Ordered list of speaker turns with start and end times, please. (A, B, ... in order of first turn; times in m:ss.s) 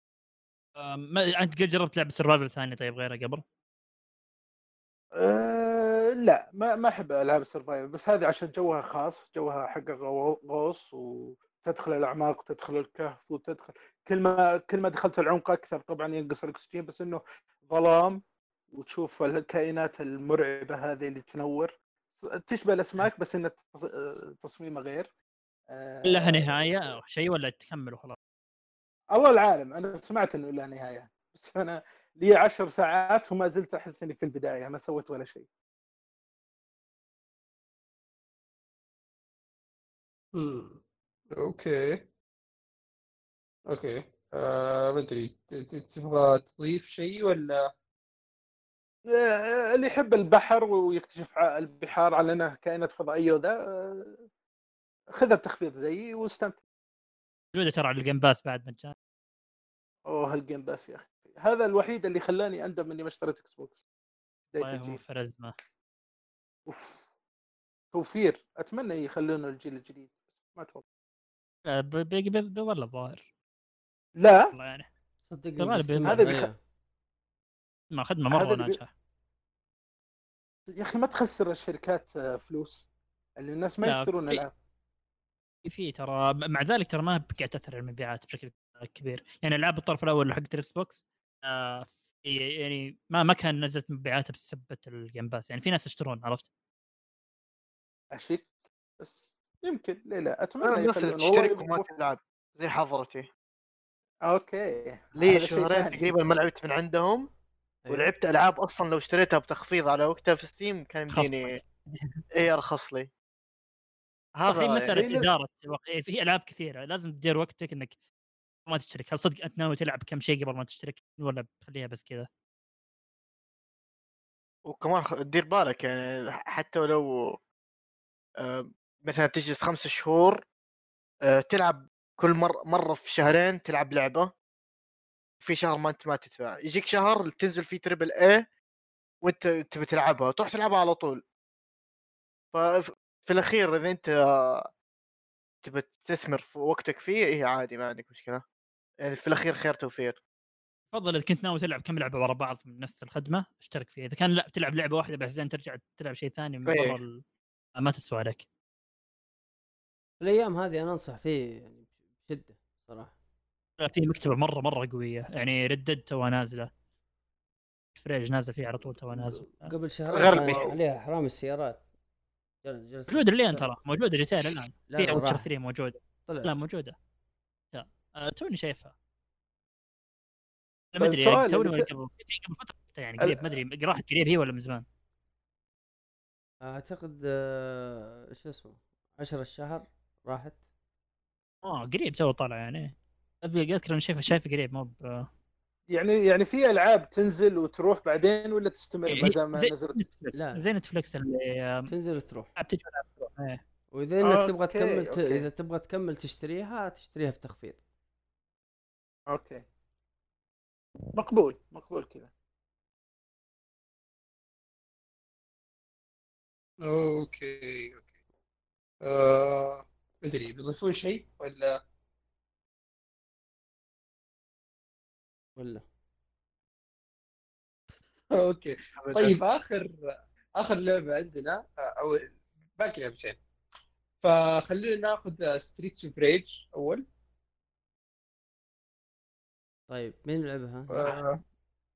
0:00.8-0:03.4 A
0:05.1-0:25.1 B
0:25.7-0:26.5 B
0:26.0-0:28.2 A
0:29.1-0:35.5 B
0:40.3-0:40.8 C
0:41.3-0:42.0 C
0:43.7-0:47.7 C
0:49.1-0:54.2 B
0:55.1-0:56.6 B
0:57.5-0:58.9 A
1:00.1-1:03.8 B
1:04.5-1:05.0 B
1:04.6-1:05.6 A
1:06.7-1:07.1 B
1:07.9-1:10.8 B
1:11.6-1:13.2 A
1:14.2-1:14.5 B
1:14.5-1:14.9 A
1:15.3-1:16.6 D
1:15.6-1:16.4 A
1:16.0-1:16.5 B
1:17.9-1:18.9 A
1:18.3-1:18.8 B
1:20.7-1:22.8 B
1:23.4-1:24.5 B
1:23.8-1:24.4 A
1:25.6-1:36.5 A
1:38.1-1:41.9 B
1:40.6-1:43.3 E
1:44.3-1:46.1 B
1:45.2-1:47.3 E
1:47.8-1:48.1 D
1:47.9-1:51.6 E
1:51.1-1:52.2 A
1:52.3-1:53.1 E
1:54.3-1:55.1 E
1:54.4-1:58.0 A
1:54.9-1:55.3 B
1:58.6-2:02.3 A
2:04.6-2:07.4 E
2:08.4-2:10.4 E
2:11.2-2:14.3 E
2:15.4-2:18.4 E
2:19.2-2:21.2 E
2:22.5-2:24.7 E
2:25.6-2:28.4 E
2:29.0-2:30.2 E
2:30.9-2:37.2 A
2:36.6-2:37.0 E
2:37.8-2:38.4 A
2:40.2-2:43.1 D
2:43.8-2:46.7 A
2:47.9-2:49.7 A
2:49.1-2:51.8 D
2:50.1-2:50.8 E
2:52.6-2:53.6 D
2:53.1-2:56.9 A
2:54.9-2:55.5 D
2:56.3-2:56.6 D
2:57.7-2:58.9 A
3:00.9-3:04.8 A
3:01.0-3:01.9 B
3:03.2-3:03.6 B
3:06.6-3:10.6 D
3:11.6-3:15.3 A
3:15.9-3:20.0 B
3:19.1-3:21.9 A
3:20.3-3:20.6 D
3:21.9-3:22.5 D
3:22.6-3:23.6 A
3:23.9-3:27.8 D
3:24.2-3:25.5 B
3:29.3-3:29.6 B
3:31.1-3:32.3 B
3:36.8-3:38.0 C
3:39.0-3:41.8 C
3:45.6-3:45.8 D
3:48.3-3:49.9 C
3:49.0-3:49.4 E
3:50.6-3:53.4 C
3:54.2-3:57.0 C
3:59.9-4:01.2 D
4:00.9-4:01.4 C